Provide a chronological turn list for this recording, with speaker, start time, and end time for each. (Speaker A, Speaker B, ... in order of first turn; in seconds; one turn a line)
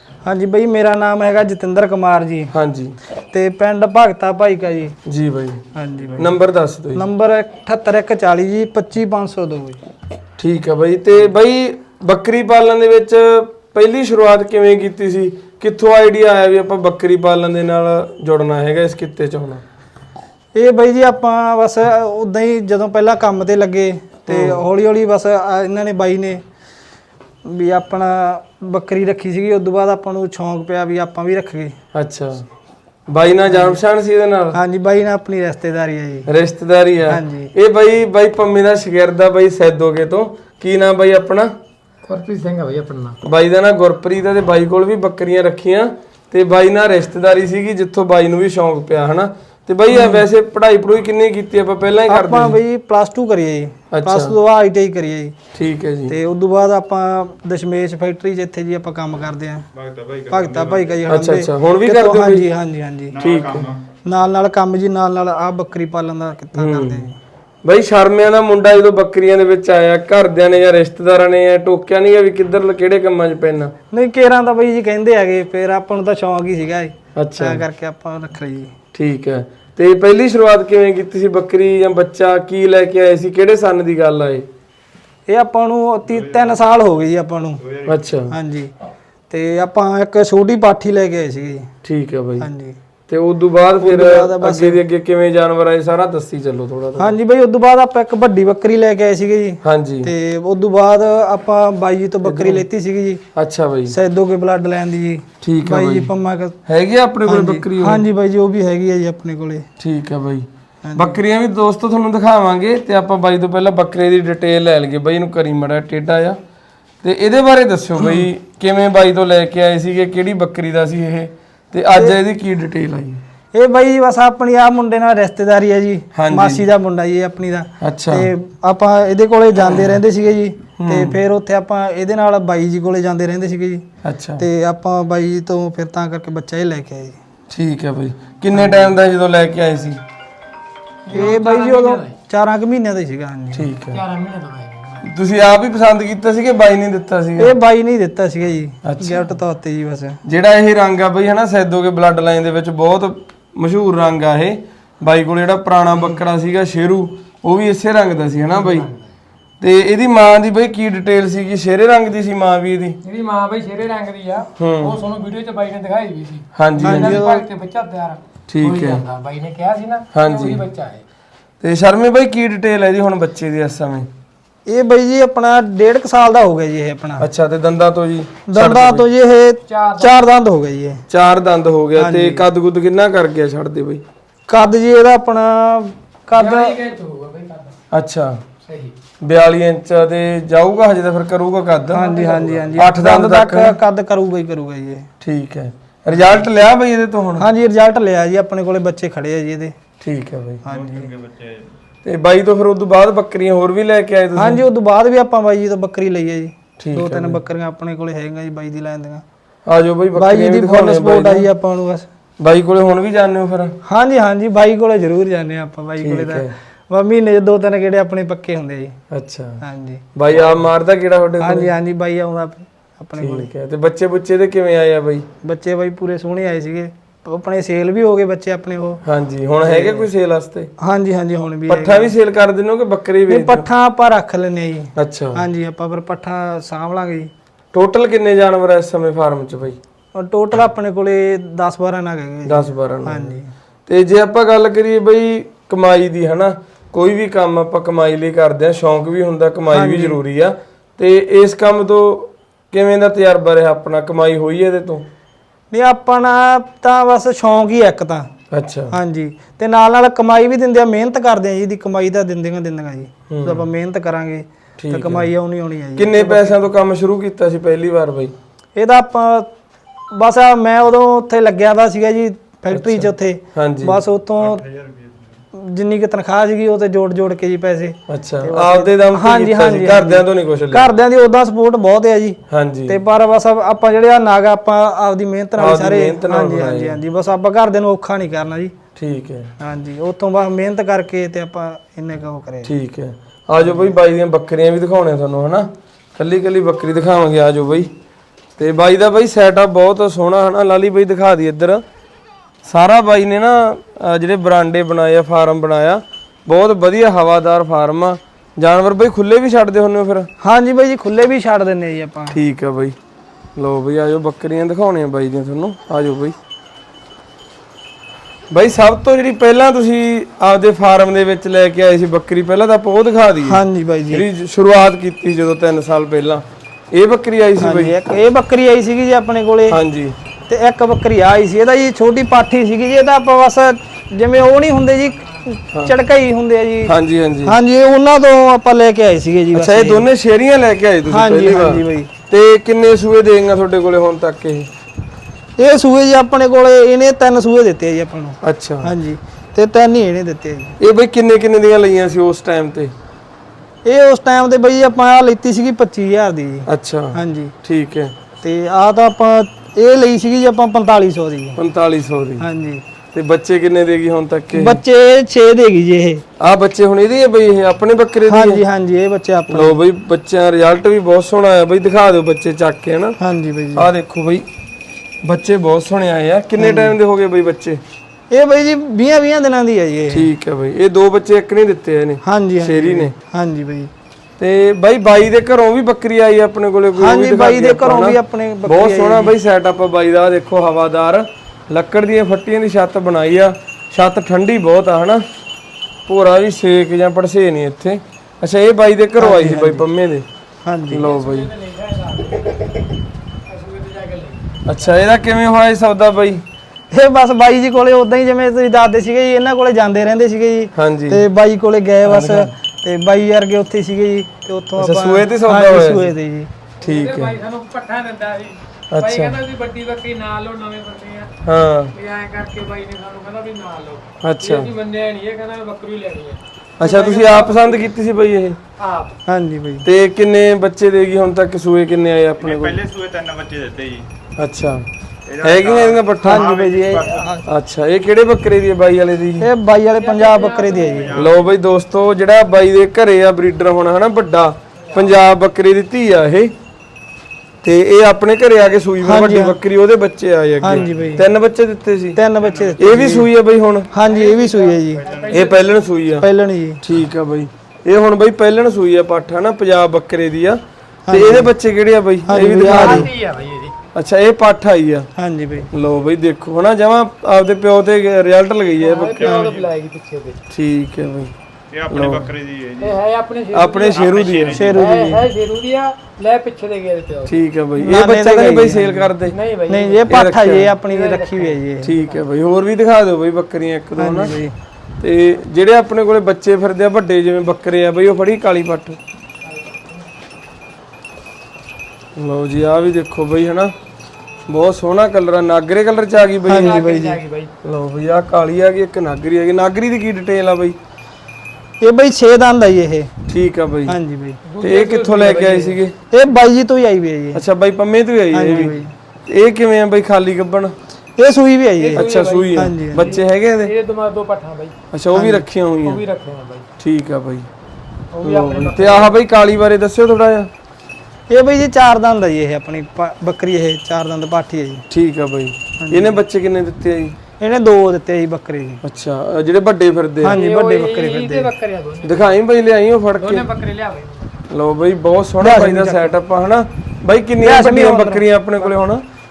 Speaker A: 0.2-2.5
Speaker B: 2.5-3.0
Speaker A: 3.3-5.0
Speaker B: 5.1-5.6
Speaker A: 5.7-6.3
Speaker B: 6.2-7.0
Speaker A: 6.9-9.8
Speaker B: 10.4-19.6
Speaker A: 20.5-26.4
Speaker B: 24.3-24.6
Speaker A: 27.4-31.7
Speaker B: 31.9-32.5
Speaker B: 33.1-34.6
Speaker A: 33.5-33.8
Speaker A: 34.5-36.3
Speaker B: 36.3-41.5
Speaker A: 37.1-37.5
Speaker C: 42.1-43.2
Speaker B: 43.2-52.5
Speaker A: 49.9-50.2
Speaker A: 52.1-55.3
Speaker B: 53.9-54.3
Speaker B: 55.5-56.1
Speaker A: 56.1-59.7
Speaker D: 59.7-61.0
Speaker A: 60.3-63.1
Speaker B: 61.1-62.4
Speaker D: 63.1-63.8
Speaker B: 63.2-63.6
Speaker A: 64.0-67.1
Speaker B: 66.5-67.0
Speaker B: 67.6-73.7
Speaker A: 73.9-78.7
Speaker B: 77.2-77.6
Speaker B: 78.9-84.5
Speaker A: 85.3-87.6
Speaker B: 87.8-88.3
Speaker A: 88.3-88.7
Speaker A: 89.3-91.7
Speaker B: 91.8-92.5
Speaker A: 92.4-92.8
Speaker B: 93.1-97.2
Speaker A: 93.8-94.8
Speaker A: 97.0-103.2
Speaker B: 99.6-100.1
Speaker B: 102.2-102.7
Speaker B: 103.3-103.9
Speaker A: 103.9-106.6
Speaker B: 105.4-106.1
Speaker B: 106.7-108.0
Speaker A: 107.2-109.7
Speaker B: 109.8-116.4
Speaker A: 110.8-111.2
Speaker B: 117.0-123.2
Speaker A: 118.0-118.2
Speaker A: 121.9-122.2
Speaker A: 123.5-133.8
Speaker B: 126.1-126.6
Speaker B: 127.8-128.3
Speaker B: 130.8-131.2
Speaker B: 134.0-134.4
Speaker A: 134.4-137.2
Speaker B: 137.5-140.0
Speaker C: 141.1-142.1
Speaker A: 141.1-143.7
Speaker B: 143.5-144.0
Speaker C: 143.9-145.1
Speaker B: 145.0-147.5
Speaker A: 147.4-150.2
Speaker B: 148.8-149.2
Speaker B: 150.2-158.9
Speaker C: 158.5-159.0
Speaker B: 159.6-163.0
Speaker C: 163.0-171.0
Speaker B: 164.6-165.0
Speaker B: 166.6-167.2
Speaker A: 166.8-167.4
Speaker B: 168.5-169.0
Speaker B: 170.1-170.6
Speaker B: 171.6-174.1
Speaker A: 174.7-177.2
Speaker B: 177.2-179.1
Speaker A: 178.5-181.0
Speaker C: 179.7-180.2
Speaker B: 181.1-184.0
Speaker A: 182.0-182.4
Speaker A: 184.5-186.8
Speaker C: 186.3-187.7
Speaker B: 187.9-188.4
Speaker C: 188.7-188.9
Speaker B: 189.2-192.1
Speaker C: 191.9-192.8
Speaker A: 191.9-195.1
Speaker B: 192.8-193.8
Speaker B: 195.2-197.4
Speaker A: 197.4-199.7
Speaker B: 200.0-200.6
Speaker A: 200.6-201.1
Speaker D: 200.7-201.6
Speaker B: 202.0-204.6
Speaker A: 204.3-209.2
Speaker B: 206.8-207.4
Speaker B: 209.7-211.5
Speaker A: 210.2-212.1
Speaker B: 212.4-213.8
Speaker A: 213.8-218.9
Speaker B: 216.0-216.5
Speaker B: 219.1-219.6
Speaker A: 219.6-220.0
Speaker B: 220.1-221.7
Speaker A: 221.4-223.5
Speaker B: 223.2-225.3
Speaker A: 225.4-229.0
Speaker B: 229.0-230.7
Speaker A: 229.6-230.1
Speaker A: 230.8-232.1
Speaker B: 231.7-233.7
Speaker A: 233.3-237.3
Speaker B: 234.9-235.4
Speaker B: 237.7-239.8
Speaker A: 240.1-243.5
Speaker B: 242.4-243.3
Speaker B: 243.9-255.1
Speaker A: 249.7-250.2
Speaker A: 255.7-258.3
Speaker B: 258.5-258.9
Speaker A: 258.9-266.6
Speaker B: 263.3-263.6
Speaker B: 264.8-265.3
Speaker B: 265.9-268.3
Speaker A: 268.8-269.5
Speaker A: 270.1-274.6
Speaker B: 272.7-274.0
Speaker D: 274.4-275.0
Speaker A: 275.5-288.7
Speaker B: 278.1-280.9
Speaker B: 282.5-283.0
Speaker B: 285.6-287.0
Speaker B: 288.9-289.5
Speaker A: 289.6-292.7
Speaker B: 292.6-297.9
Speaker B: 298.6-301.8
Speaker B: 302.6-310.3
Speaker A: 310.4-312.4
Speaker B: 312.3-312.9
Speaker B: 313.6-316.4
Speaker B: 318.5-323.6
Speaker A: 323.4-324.2
Speaker B: 324.1-327.9
Speaker A: 327.6-329.8
Speaker B: 329.7-330.1
Speaker A: 330.5-336.9
Speaker B: 336.9-337.5
Speaker A: 337.4-340.1
Speaker B: 339.5-344.7
Speaker A: 341.1-342.1
Speaker A: 345.6-350.8
Speaker B: 348.4-348.9
Speaker B: 350.8-352.9
Speaker A: 353.8-357.5
Speaker B: 356.7-358.1
Speaker A: 358.4-361.6
Speaker B: 361.6-362.4
Speaker A: 362.4-362.8
Speaker B: 363.1-364.8
Speaker A: 364.5-366.2
Speaker B: 366.4-368.6
Speaker A: 368.3-369.8
Speaker B: 369.5-373.2
Speaker A: 373.2-373.9
Speaker B: 373.7-374.5
Speaker B: 375.2-377.8
Speaker A: 376.6-376.9
Speaker A: 378.3-380.3
Speaker B: 380.1-383.1
Speaker A: 382.2-383.9
Speaker B: 384.4-395.2
Speaker A: 386.9-389.3
Speaker B: 396.1-400.2
Speaker A: 399.2-399.9
Speaker A: 400.6-401.1
Speaker B: 400.9-401.5
Speaker C: 401.0-402.9
Speaker C: 403.5-404.8
Speaker B: 404.6-406.4
Speaker A: 406.9-416.5
Speaker B: 410.7-411.2
Speaker B: 412.0-412.5
Speaker B: 414.8-416.1
Speaker B: 416.8-417.4
Speaker C: 416.8-421.3
Speaker B: 418.9-419.4
Speaker B: 421.4-421.9
Speaker C: 421.9-427.9
Speaker B: 424.2-424.7
Speaker B: 426.8-428.6
Speaker C: 428.8-429.1
Speaker A: 429.3-429.8
Speaker B: 429.8-432.8
Speaker D: 432.4-434.1
Speaker B: 434.4-434.8
Speaker D: 435.2-437.2
Speaker B: 435.4-436.6
Speaker A: 436.2-437.4
Speaker B: 437.4-439.5
Speaker A: 439.4-441.2
Speaker C: 440.0-441.3
Speaker D: 440.9-441.4
Speaker B: 441.1-446.5
Speaker C: 444.9-445.2
Speaker B: 447.6-452.2
Speaker A: 449.0-449.6
Speaker A: 450.6-451.3
Speaker D: 450.7-451.0
Speaker A: 452.1-453.3
Speaker D: 452.4-453.0
Speaker B: 452.8-453.9
Speaker A: 453.9-455.0
Speaker C: 454.0-455.7
Speaker D: 454.9-455.5
Speaker B: 455.3-456.2
Speaker A: 456.2-456.8
Speaker B: 456.8-460.6
Speaker A: 461.1-461.5
Speaker B: 461.1-463.1
Speaker A: 462.2-463.1
Speaker C: 462.6-463.7
Speaker B: 463.9-465.1
Speaker A: 465.1-465.7
Speaker B: 465.7-469.4
Speaker C: 468.8-470.4
Speaker D: 469.2-469.7
Speaker A: 469.2-469.5
Speaker B: 470.5-471.3
Speaker D: 471.7-473.0
Speaker B: 471.9-472.3
Speaker C: 472.8-474.0
Speaker B: 473.5-475.1
Speaker D: 473.9-474.8
Speaker A: 474.5-475.2
Speaker C: 474.7-477.3
Speaker B: 477.2-479.3
Speaker A: 477.8-479.1
Speaker C: 479.3-480.2
Speaker A: 479.7-481.9
Speaker B: 480.1-480.7
Speaker C: 480.8-482.1
Speaker B: 481.8-484.3
Speaker A: 484.0-484.5
Speaker B: 485.0-489.0
Speaker B: 492.1-493.7
Speaker B: 494.5-496.8
Speaker A: 496.5-497.2
Speaker C: 496.5-497.5
Speaker B: 497.6-500.8
Speaker A: 501.8-503.1
Speaker B: 503.3-503.9
Speaker A: 503.9-504.4
Speaker C: 504.5-505.8
Speaker B: 504.6-505.9
Speaker A: 506.1-507.4
Speaker B: 507.3-508.8
Speaker A: 508.3-508.9
Speaker B: 509.3-510.7
Speaker A: 511.2-513.1
Speaker C: 511.8-514.7
Speaker B: 511.9-513.7
Speaker B: 514.9-516.0
Speaker A: 515.1-515.4
Speaker C: 515.8-516.6
Speaker B: 516.8-517.5
Speaker C: 518.1-519.1
Speaker B: 518.2-520.5
Speaker A: 521.3-524.8
Speaker B: 524.9-527.1
Speaker A: 525.8-526.2
Speaker A: 527.4-528.8
Speaker B: 528.8-530.4
Speaker A: 530.2-531.5
Speaker C: 530.3-532.3
Speaker B: 532.0-533.4
Speaker C: 533.2-534.3
Speaker B: 534.5-539.0
Speaker A: 535.4-536.2
Speaker A: 537.4-538.7